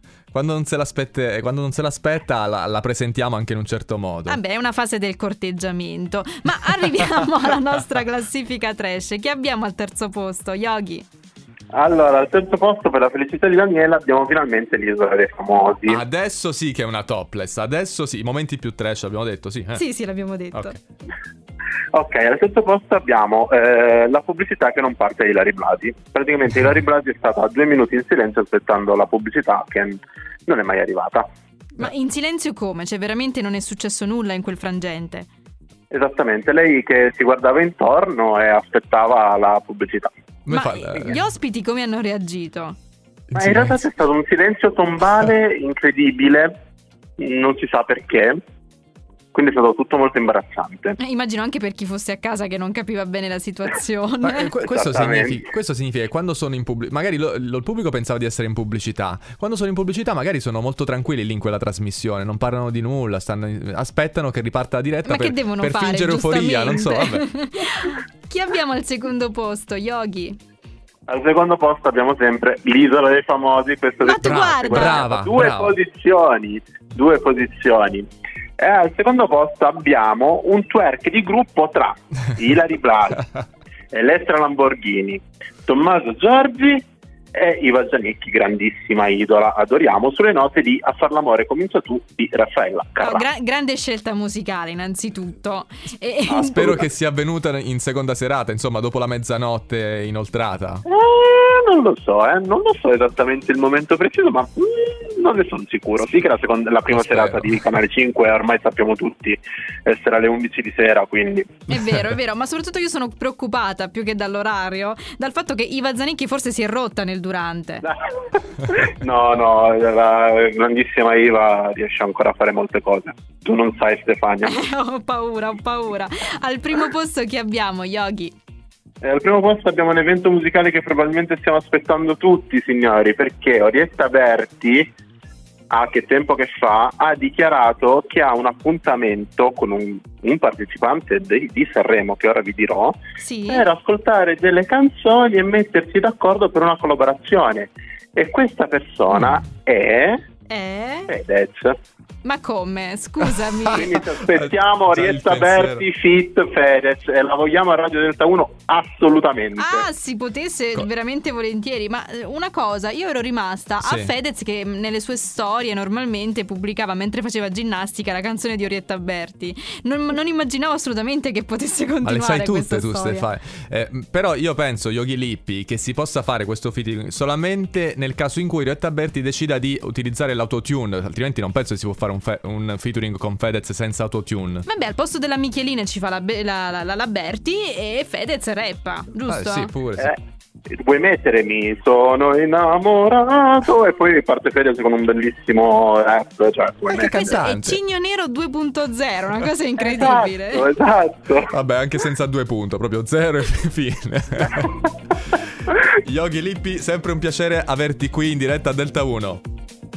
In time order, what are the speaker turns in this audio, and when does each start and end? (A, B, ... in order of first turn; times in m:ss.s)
0:00.3-0:04.4 A
0:04.3-0:11.0 B
0:11.7-0:16.0 C
0:15.9-0:19.8 A
0:19.7-0:20.8 B
0:21.9-0:31.3 C
0:31.8-0:35.3 B
0:35.9-0:40.1 C
0:40.4-0:41.2 A
0:40.5-0:42.8 B
0:43.3-0:43.8 A
0:43.3-0:46.5 C
0:47.2-0:48.4 C
0:49.3-0:51.0 C
0:51.0-0:54.5 B
0:54.2-1:07.2 A
0:54.6-0:55.4 C
1:05.0-1:10.4 B
1:11.1-1:18.1 C
1:14.0-1:15.1 B
1:14.2-1:15.8 A
1:18.6-1:23.2 C
1:23.9-1:26.8 C
1:27.3-1:33.2 C
1:33.0-1:36.8 B
1:36.3-1:40.8 A
1:40.9-1:51.6 C
1:46.9-1:47.5 A
1:51.7-1:57.8 B
1:57.8-2:04.6 C
2:04.4-2:08.3 B
2:09.0-2:14.9 C
2:15.7-2:30.2 C
2:23.2-2:23.6 B
2:30.5-2:31.1 B
2:31.1-2:31.8 C
2:32.2-2:34.0 B
2:33.7-2:39.9 C
2:33.8-2:35.8 A
2:39.6-2:53.3 B
2:43.8-2:44.1 A
2:52.0-3:04.6 A
3:04.7-3:09.7 B
3:09.3-3:10.2 A
3:10.7-3:17.4 C
3:16.9-3:20.7 B
3:17.0-3:17.8 A
3:19.8-3:21.5 C
3:21.5-3:24.8 A
3:26.0-3:29.4 A